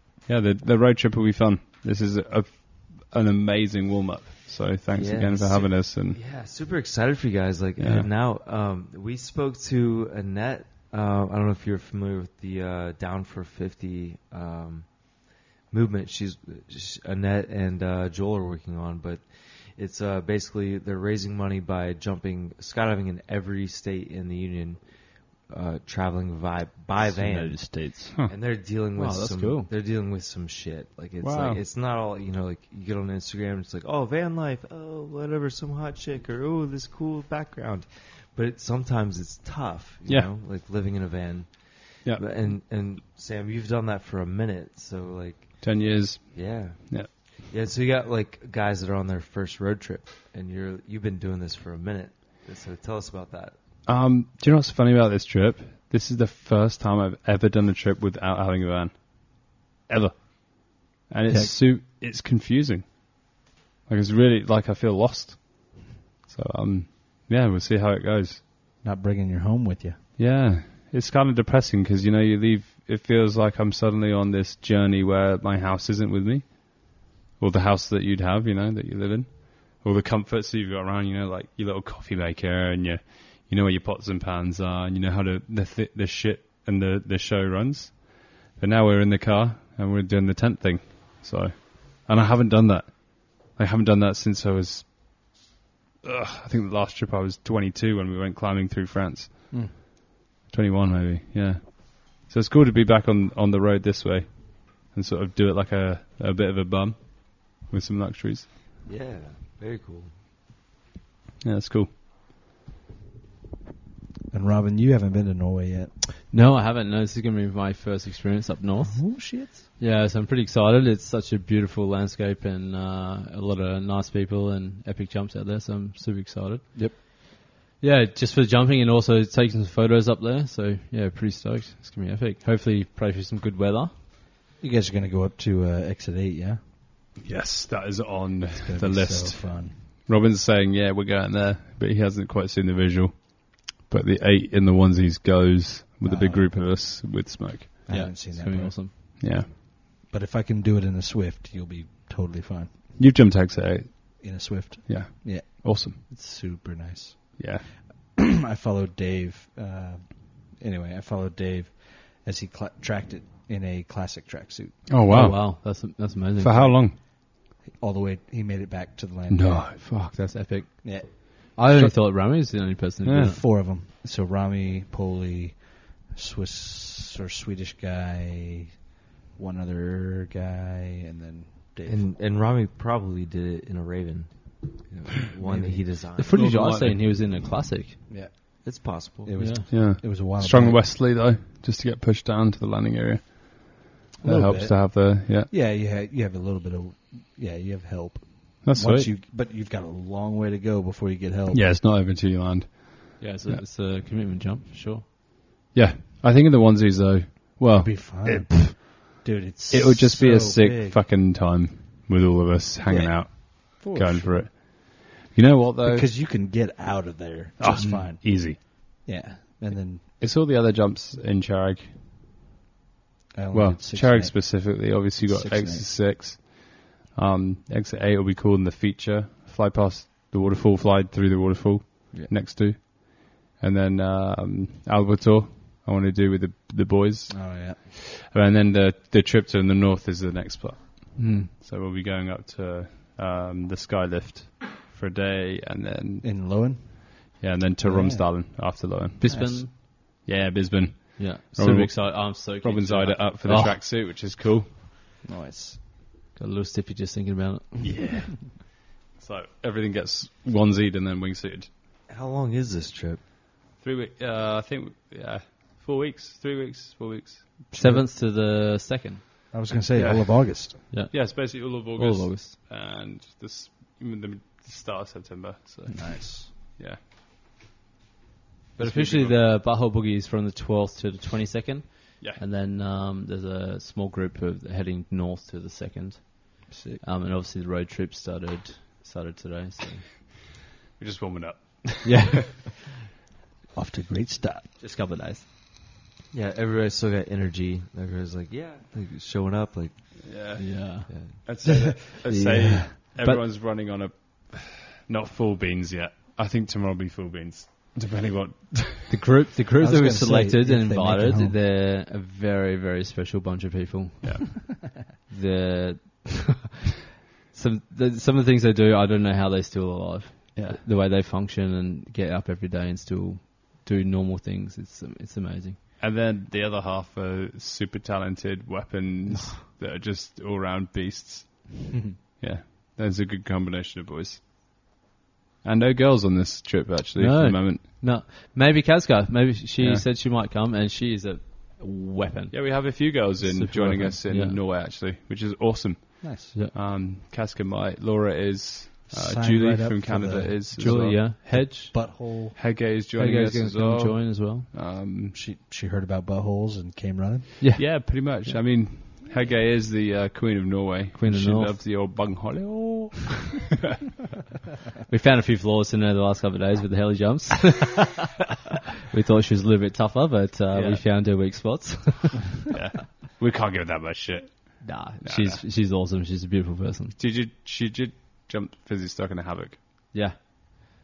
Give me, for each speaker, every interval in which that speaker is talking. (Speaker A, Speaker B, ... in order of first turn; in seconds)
Speaker A: 0.2-6.2, 7.8-8.1, 31.2-31.6, 42.0-42.5, 45.6-47.1, 53.9-68.4, 70.2-95.4, 96.0-99.8, 100.5-108.5, 111.4-111.9, 137.2-147.9, 149.2-149.5, 153.0-156.0, 157.4-157.6, 164.9-165.8, 166.4-167.0, 169.3-169.8, 173.0-173.3, 186.3-187.0, 189.7-195.5, 198.6-199.1, 201.5-203.6, 205.7-209.1, 209.7-216.1, 217.6-218.6, 220.2-221.9, 223.5-246.7, 247.4-254.7, 257.8-261.7, 263.8-267.7, 269.9-277.0, 278.8-279.4, 291.0-292.6, 300.2-309.2, 314.2-314.5, 320.6-320.8, 326.0-334.4, 335.6-337.8, 339.8-340.1, 342.5-351.2, 352.5-355.4, 357.8-363.7, 370.7-371.0, 372.7-375.6, 377.2-379.8
Speaker B: 4.9-53.5, 108.8-110.1, 181.8-186.4, 188.6-189.3, 262.1-263.2, 296.3-300.3, 301.1-301.4
Speaker C: 27.0-28.1, 28.9-29.7, 116.3-127.2, 127.8-133.9, 147.9-148.9, 165.1-166.8, 169.8-173.4, 186.2-188.0, 189.4-189.7, 203.2-205.0, 241.2-241.5, 249.2-249.7, 251.2-253.8, 256.4-257.9, 267.7-269.2, 270.9-272.6, 278.8-290.2, 292.0-292.7, 294.8-295.5, 300.6-301.1, 303.2-303.4, 309.1-316.7, 317.5-325.8, 337.1-344.6, 350.7-352.2, 353.1-354.7, 357.6-358.5, 361.1-361.8, 365.1-368.3, 369.1-372.7, 374.8-377.1
Speaker D: 61.3-61.6, 68.8-70.0, 114.3-115.9, 118.9-119.7, 134.6-136.6, 138.5-139.8, 146.0-146.7, 147.8-149.1, 150.0-152.8, 154.2-164.9, 167.6-169.9, 170.8-172.0, 173.1-182.1, 185.4-185.8, 188.1-190.9, 194.2-201.7, 207.7-211.0, 212.9-214.5, 215.8-220.0, 223.3-225.9, 237.3-237.8, 246.2-249.6, 255.2-255.8, 267.7-268.1, 269.5-270.8, 275.9-276.5, 286.7-287.0, 293.7-294.7, 301.6-302.9, 309.8-311.6, 331.9-332.2, 346.2-346.5, 349.1-352.6, 355.3-357.5